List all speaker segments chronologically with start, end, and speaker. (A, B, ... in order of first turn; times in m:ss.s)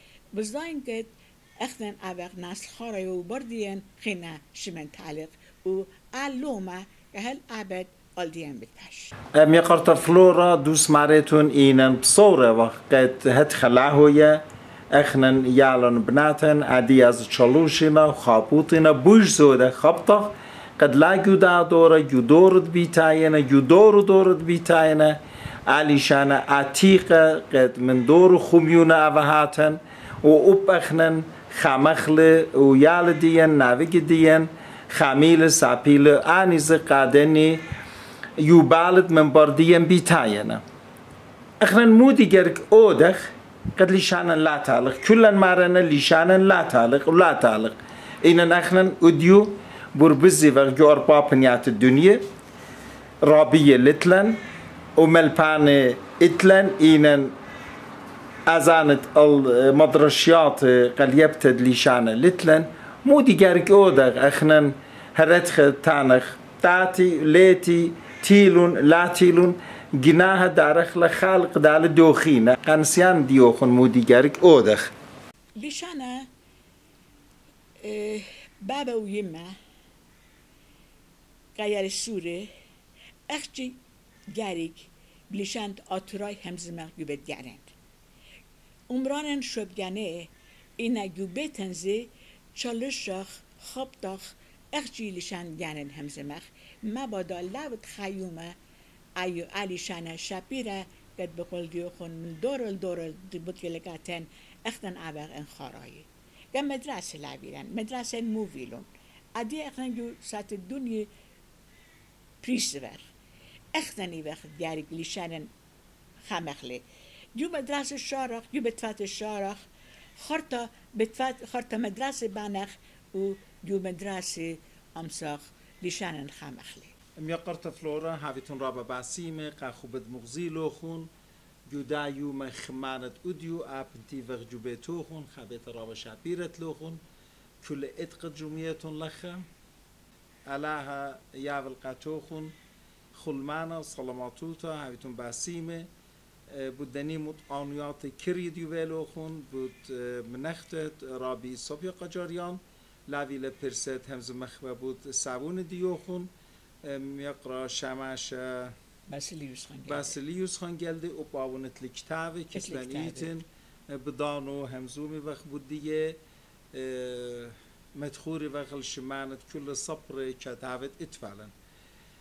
0:00.3-0:09.1 A
0:09.3-0:37.6 B
0:38.4-0:40.6 B
0:41.6-0:52.2 B
0:53.2-0:54.4 B
0:55.0-0:57.3 B
0:58.4-1:14.9 B
1:15.6-1:16.3 A
1:17.8-1:19.5 A
1:21.6-1:22.5 A
1:23.3-1:23.8 A
1:24.3-1:27.7 A
1:28.9-1:38.5 A
1:39.2-1:51.1 A
1:52.4-1:53.1 A
1:53.7-1:55.5 A
1:56.2-1:56.8 A
1:57.3-1:59.6 A
2:00.2-2:06.9 A
2:07.2-2:11.1 B
2:11.7-2:17.0 B
2:17.6-2:19.4 B
2:20.5-2:22.5 B
2:23.1-2:25.9 B
2:26.5-2:36.3 B
2:36.8-2:38.7 B
2:39.1-2:40.2 A
2:39.9-2:46.2 B
2:42.5-2:43.3 A
2:46.7-2:51.5 B